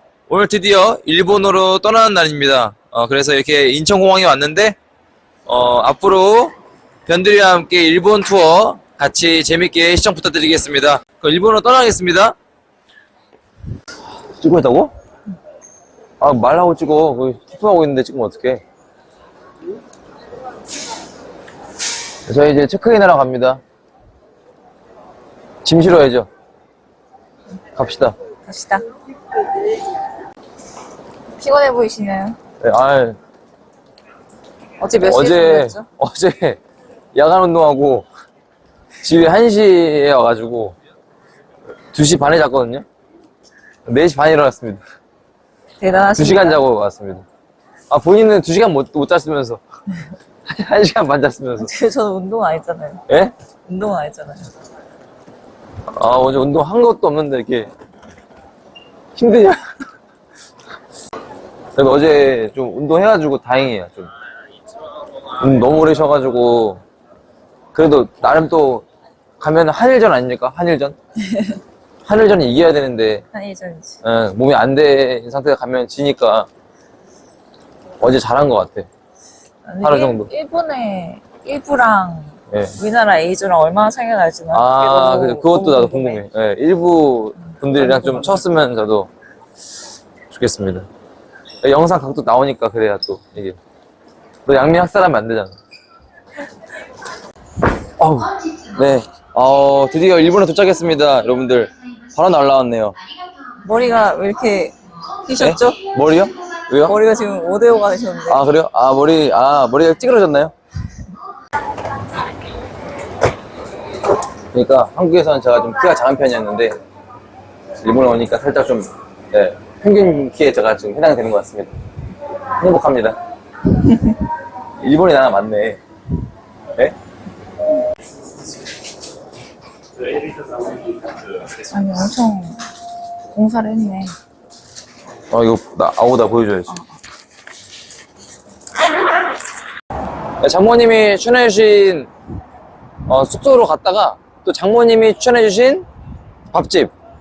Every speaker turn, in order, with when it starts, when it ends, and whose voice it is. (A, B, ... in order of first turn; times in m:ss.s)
0:00.3-0:04.8 A
0:05.5-0:06.5 A
0:07.1-0:12.4 A
0:14.4-0:14.9 A
0:16.2-0:18.6 A
0:22.3-0:23.6 A
0:25.6-0:26.3 A
0:27.8-0:28.2 A
0:28.4-0:28.8 B
0:31.4-0:32.4 B
0:32.6-0:33.2 A
0:34.8-0:35.9 B
0:35.0-0:36.6 A
0:37.1-0:38.1 A
0:39.0-0:40.8 A
0:41.9-0:42.9 A
0:43.9-0:44.8 A
0:45.8-0:46.6 B
0:46.2-0:47.2 A
0:47.9-0:49.6 A
0:50.5-0:51.7 A
0:51.6-0:53.0 B
0:53.7-0:54.5 B
0:55.9-0:57.7 A
0:59.2-0:59.6 A
1:01.8-1:04.1 A
1:05.4-1:06.8 A
1:07.7-1:08.8 A
1:09.4-1:11.0 A
1:11.3-1:11.6 B
1:12.1-1:13.2 A
1:13.3-1:14.0 B
1:14.0-1:16.5 A
1:18.0-1:18.9 A
1:19.7-1:26.2 B
1:19.8-1:20.3 A
1:22.5-1:22.8 A
1:24.5-1:29.1 A
1:27.7-1:28.4 B
1:30.3-1:30.9 A
1:31.6-1:33.6 A
1:34.5-1:35.6 A
1:38.0-1:43.0 A
1:43.6-1:45.8 B
1:45.4-1:47.0 A
1:46.8-1:48.4 B
1:48.3-1:50.5 A
1:54.5-1:56.8 A
1:57.8-2:01.7 A
2:02.6-2:03.2 A
2:04.8-2:05.8 A
2:11.6-2:12.6 B
2:13.3-2:14.2 B
2:15.3-2:16.7 A
2:16.7-2:17.0 B
2:20.4-2:22.1 A
2:23.1-2:25.9 A
2:26.5-2:26.9 A